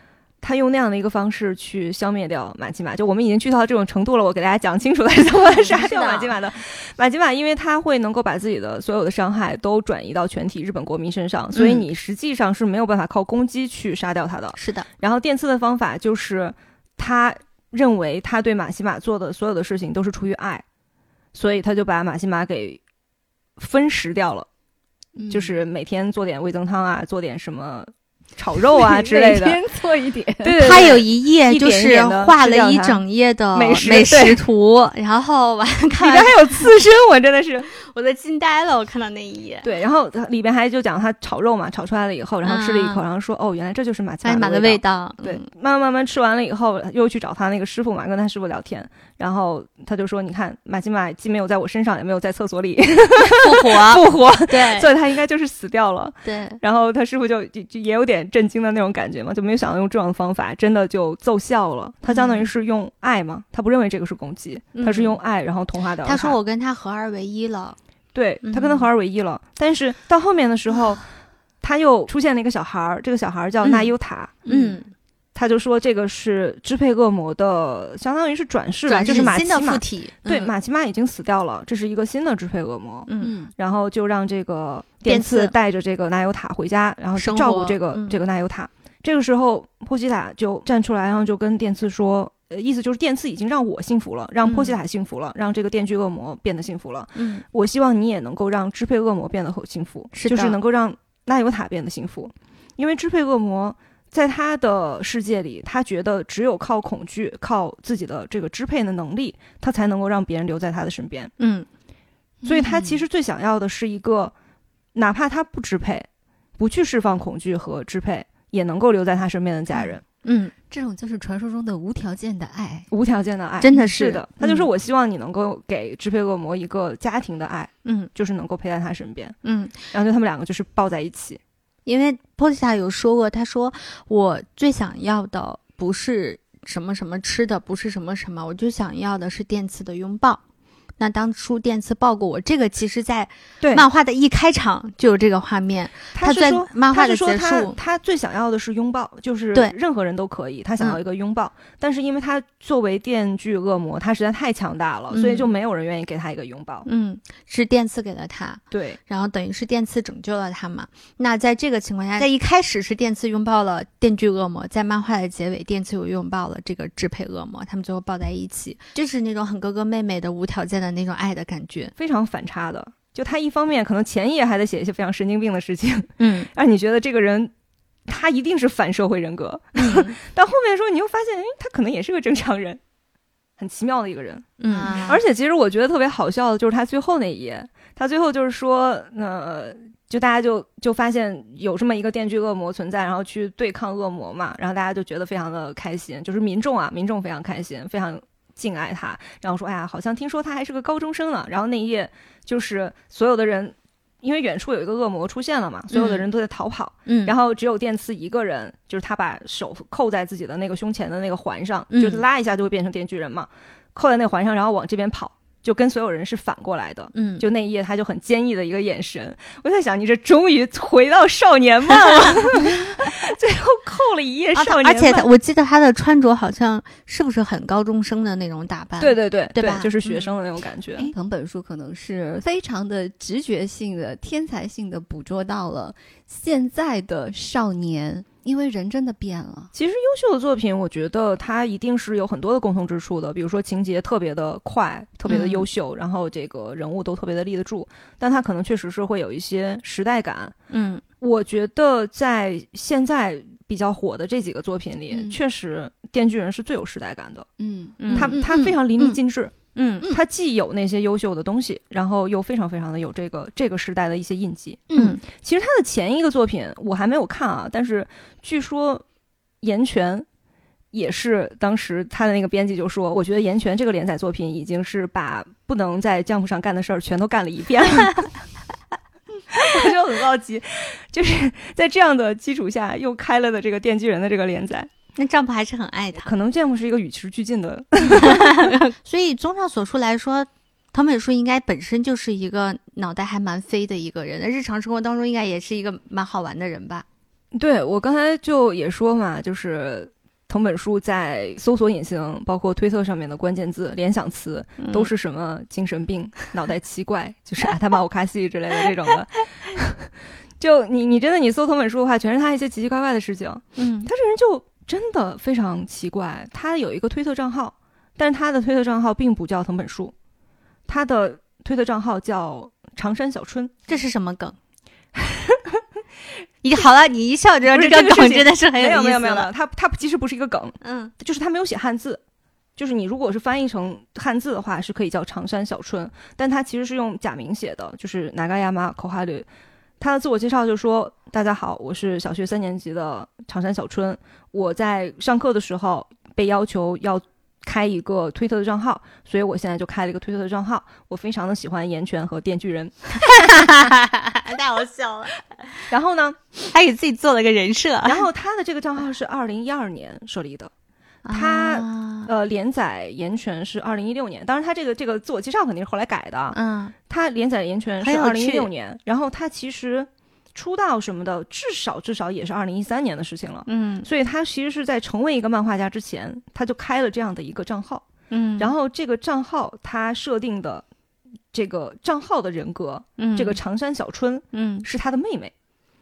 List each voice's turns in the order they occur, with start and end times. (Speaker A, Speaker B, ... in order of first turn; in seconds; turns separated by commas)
Speaker A: 0.4-20.6, Speaker B: 5.5-6.4, Speaker B: 11.6-11.8, Speaker B: 14.6-14.9, Speaker A: 21.3-22.8, Speaker A: 23.6-24.5, Speaker C: 25.2-25.6, Speaker A: 25.3-29.6, Speaker C: 28.7-30.9, Speaker A: 30.4-33.0, Speaker B: 30.6-36.7, Speaker A: 33.5-34.4, Speaker A: 35.9-37.7, Speaker B: 37.7-39.7, Speaker A: 39.6-66.4, Speaker B: 42.4-43.0, Speaker B: 44.2-45.5, Speaker B: 53.3-54.9, Speaker B: 56.2-56.6, Speaker B: 62.1-62.5, Speaker B: 64.8-65.2, Speaker B: 66.0-67.8, Speaker A: 68.1-71.0, Speaker B: 68.4-68.9, Speaker A: 71.6-74.4, Speaker B: 73.7-73.9, Speaker C: 74.5-74.8, Speaker B: 74.5-74.9, Speaker A: 75.3-111.3, Speaker B: 78.9-80.5, Speaker B: 83.1-83.3, Speaker C: 83.2-83.5, Speaker B: 85.1-85.5, Speaker B: 87.2-88.2, Speaker B: 94.5-94.8, Speaker B: 97.2-97.4, Speaker B: 100.1-100.6, Speaker B: 111.4-111.7, Speaker C: 112.4-113.0, Speaker A: 112.5-114.3, Speaker A: 115.0-116.1, Speaker A: 116.6-120.0, Speaker B: 120.2-120.5, Speaker C: 120.7-122.9, Speaker A: 122.9-129.4, Speaker B: 123.6-124.7, Speaker B: 127.8-128.1, Speaker B: 129.4-129.8, Speaker A: 129.9-131.4, Speaker B: 131.9-140.4, Speaker B: 141.0-147.8, Speaker A: 146.1-156.9, Speaker B: 155.1-155.5, Speaker B: 156.9-171.9, Speaker A: 158.7-159.0, Speaker A: 172.0-177.5, Speaker B: 176.2-176.5, Speaker A: 178.1-182.8, Speaker B: 179.8-180.2, Speaker A: 183.6-225.3, Speaker B: 184.6-185.2, Speaker B: 205.9-206.3, Speaker B: 207.1-207.3, Speaker B: 211.9-212.2, Speaker B: 217.1-217.5, Speaker B: 224.6-230.2, Speaker A: 229.0-231.1, Speaker C: 231.0-239.7, Speaker A: 239.7-250.6, Speaker B: 245.3-245.7, Speaker B: 250.7-251.0, Speaker A: 251.2-257.5, Speaker C: 255.1-255.4, Speaker C: 257.6-258.8, Speaker B: 258.0-259.2, Speaker A: 258.1-259.6, Speaker B: 259.8-260.1, Speaker A: 260.1-269.0, Speaker C: 264.9-265.2, Speaker B: 264.9-265.2, Speaker A: 269.6-270.3, Speaker A: 270.9-278.3, Speaker A: 279.5-284.9, Speaker B: 285.1-286.3, Speaker A: 286.2-288.7, Speaker B: 288.1-297.1, Speaker A: 297.5-320.1, Speaker B: 304.8-305.1, Speaker B: 313.8-314.1, Speaker A: 320.9-323.8, Speaker B: 323.9-324.6, Speaker A: 325.2-325.8, Speaker B: 326.6-329.5, Speaker A: 327.7-332.2, Speaker B: 330.8-331.1, Speaker A: 332.8-339.5, Speaker A: 340.0-353.2, Speaker B: 353.2-355.8, Speaker A: 355.9-356.4, Speaker B: 356.6-358.3, Speaker A: 358.1-360.7, Speaker B: 361.2-362.3, Speaker A: 361.3-366.6, Speaker B: 366.5-366.9, Speaker A: 367.1-378.1, Speaker B: 368.0-368.7, Speaker B: 373.7-374.1, Speaker B: 378.3-378.7, Speaker A: 378.6-380.9, Speaker A: 381.5-385.5, Speaker B: 383.2-383.6, Speaker B: 384.5-384.9